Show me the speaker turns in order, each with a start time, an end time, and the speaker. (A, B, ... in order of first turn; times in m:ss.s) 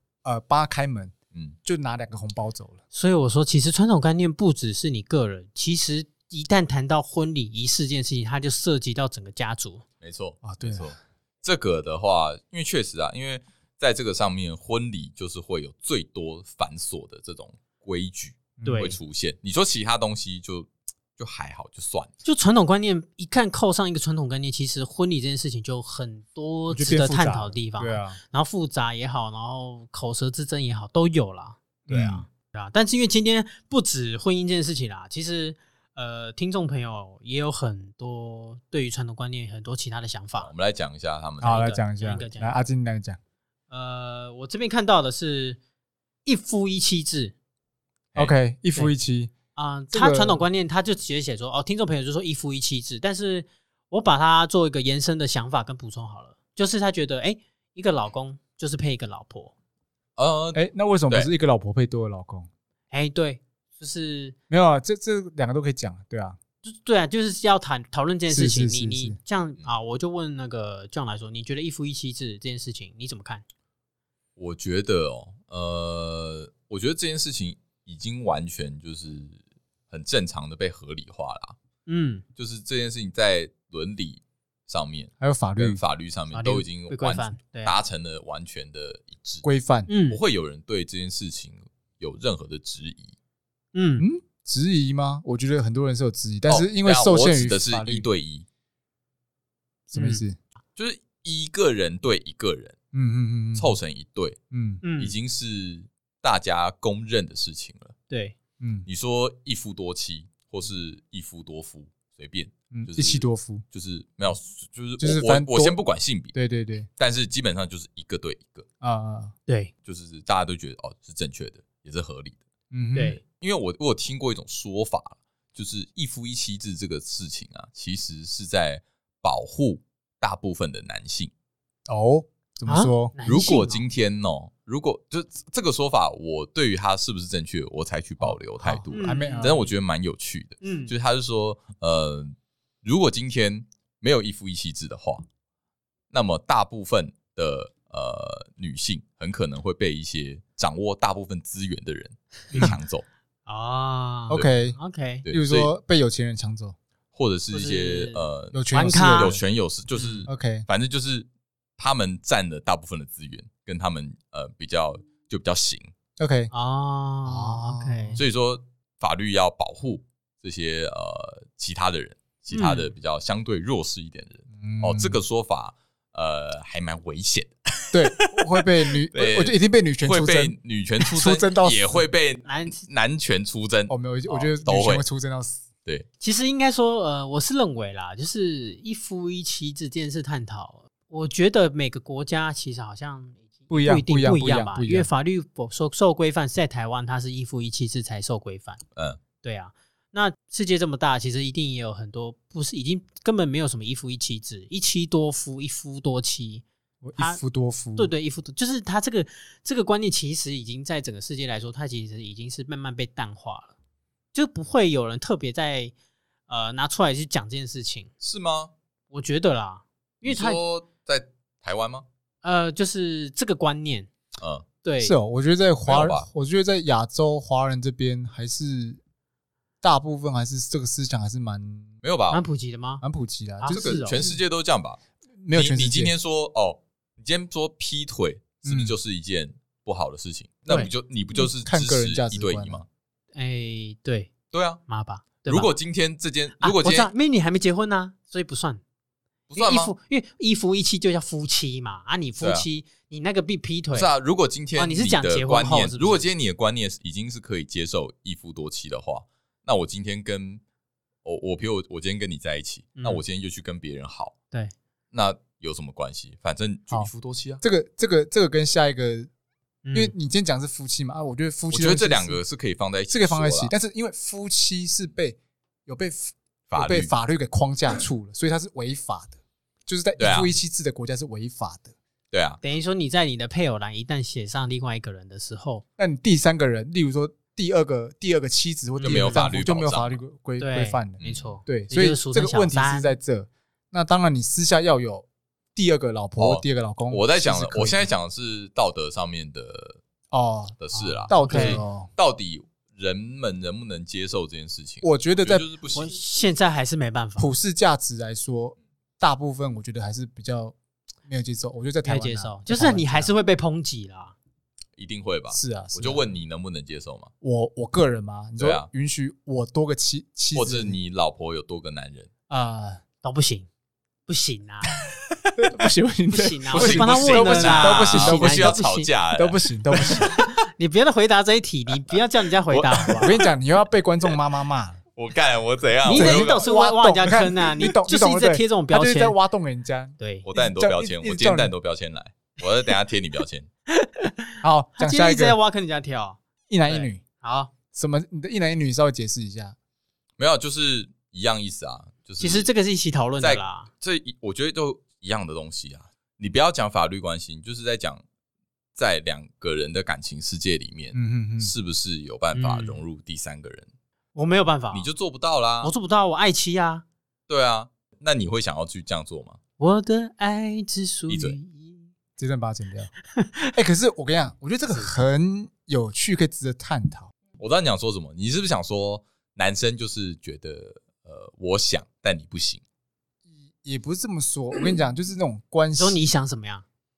0:00.2-0:01.1 A
0:01.6-0:02.8 A
0:02.9-0:09.8 B
0:10.0-0:22.1 C
0:10.4-0:10.9 A
0:18.6-0:18.9 A
0:18.6-0:19.0 B
0:22.2-0:40.5 B
0:26.7-0:28.2 A
0:31.9-0:32.2 A
0:40.4-0:41.8 C
0:41.4-0:43.2 A
0:41.5-0:42.6 B
0:43.7-0:45.6 B
0:46.2-0:47.3 B
0:48.2-0:49.3 A
0:49.6-0:59.5 B
0:49.9-0:50.4 A
1:00.2-1:01.3 C
1:00.5-1:02.5 A
1:02.9-1:04.4 B
1:04.5-1:06.4 A
1:06.6-1:13.4 B
1:08.3-1:09.2 A
1:14.4-1:19.4 C
1:19.9-1:21.6 C
1:21.9-1:22.2 B
1:22.4-1:29.4 C
1:25.2-1:25.8 A
1:26.3-1:27.8 B
1:29.4-1:29.9 A
1:29.9-1:30.2 B
1:30.1-1:33.2 C
1:33.7-1:34.0 B
1:34.0-1:38.1 A
1:36.5-1:38.5 C
1:39.9-1:40.4 A
1:40.0-1:40.2 B
1:40.8-1:42.8 C
1:42.9-1:43.8 A
1:43.6-1:44.4 C
1:44.5-1:44.8 A
1:44.8-1:45.1 B
1:45.0-1:47.9 C
1:48.1-1:48.4 B
1:48.6-1:48.9 A
1:48.9-1:56.4 C
1:52.7-1:53.6 A
1:55.0-1:55.8 A
1:56.3-1:56.9 A
1:57.0-1:58.6 C
1:58.8-1:59.3 A
1:59.5-1:59.7 B
1:59.8-2:02.4 C
2:02.7-2:03.2 A
2:03.2-2:11.3 C
2:11.9-2:13.1 A
2:12.7-2:13.8 B
2:13.2-2:25.3 C
2:18.2-2:19.6 A
2:18.9-2:19.7 B
2:20.6-2:20.9 B
2:26.1-2:33.0 C
2:33.5-2:35.2 B
2:34.3-2:36.8 A
2:35.2-2:35.7 C
2:37.1-2:41.3 C
2:37.5-2:38.2 B
2:38.5-2:39.4 A
2:38.7-2:39.4 B
2:40.0-2:40.3 B
2:40.3-2:40.7 A
2:41.8-2:45.9 C
2:46.2-2:46.5 A
2:46.5-2:48.2 B
2:47.3-2:48.2 A
2:48.2-3:05.0 C
2:52.5-2:52.9 B
2:54.6-2:55.2 A
2:57.9-3:00.6 A
3:01.1-3:02.0 A
3:02.4-3:02.9 B
3:03.9-3:05.6 A
3:06.2-3:18.8 B
3:13.7-3:15.1 A
3:19.4-3:26.6 B
3:27.0-3:28.1 A
3:28.0-3:33.7 B
3:34.3-3:35.9 B
3:36.5-3:38.1 B
3:38.2-3:38.7 C
3:39.1-3:40.6 B
3:40.2-3:42.1 C
3:42.4-3:44.1 B
3:44.4-3:44.6 C
3:44.8-3:45.2 B
3:45.0-3:49.0 A
3:45.8-3:46.3 C
3:49.8-3:51.9 A
3:52.0-3:52.4 C
3:52.3-3:53.0 B
3:53.0-3:54.4 A
3:53.6-3:54.2 B
3:53.7-3:55.0 C
3:55.4-3:56.1 A
3:55.5-4:02.8 C
3:58.6-3:59.0 A
4:00.7-4:02.8 A
4:03.4-4:04.3 B
4:04.5-4:04.8 C
4:04.9-4:05.7 B
4:05.4-4:07.1 C
4:06.6-4:08.8 B
4:09.5-4:09.9 C
4:09.6-4:14.1 B
4:12.4-4:12.7 C
4:13.9-4:20.6 C
4:14.8-4:16.2 B
4:21.2-4:24.3 C
4:23.0-4:23.2 B
4:25.1-4:27.6 C
4:27.6-4:29.3 A
4:29.8-4:30.1 B
4:29.9-4:32.4 A
4:31.7-4:33.7 C
4:33.1-4:42.0 A
4:36.7-4:37.1 C
4:40.2-4:40.5 C
4:42.3-4:42.6 C
4:42.6-4:45.8 B
4:46.0-4:58.1 A
4:49.0-4:49.5 B
4:49.0-4:50.2 C
4:50.6-4:53.1 B
4:51.2-4:51.5 C
4:56.4-5:00.0 C
5:00.3-5:02.1 A
5:00.8-5:06.2 C
5:00.9-5:01.8 B
5:05.0-5:05.6 A
5:05.9-5:07.5 B
5:07.4-5:13.3 A
5:12.0-5:14.4 B
5:15.0-5:17.3 C
5:15.5-5:16.3 A
5:17.4-5:21.0 A
5:18.6-5:18.9 C
5:20.5-5:22.3 C
5:22.5-5:23.0 A
5:23.2-5:23.7 B
5:24.3-5:24.9 B
5:25.6-5:28.8 A
5:26.3-5:29.1 B
5:26.7-5:30.3 C
5:29.3-5:30.3 A
5:30.2-5:33.4 B
5:32.0-5:33.4 C
5:33.2-5:35.0 A
5:35.2-5:36.7 C
5:36.0-5:39.4 B
5:36.1-5:41.7 A
5:40.2-5:40.5 B
5:40.4-5:43.7 C
5:43.9-5:47.7 B
5:44.6-5:45.6 A
5:46.7-5:47.2 A
5:47.9-5:49.8 A
5:50.4-5:52.7 C
5:52.4-5:53.9 B
5:53.4-5:58.2 C
5:59.0-6:03.9 C
6:01.1-6:01.7 A
6:02.5-6:03.0 B
6:04.4-6:05.1 B
6:04.9-6:05.9 C
6:05.8-6:07.0 B
6:07.5-6:09.6 C
6:09.8-6:12.1 B
6:11.3-6:11.6 C
6:12.4-6:13.1 A
6:13.4-6:13.7 B
6:13.7-6:17.3 A
6:17.6-6:22.8 C
6:23.5-6:26.2 A
6:26.0-6:26.8 B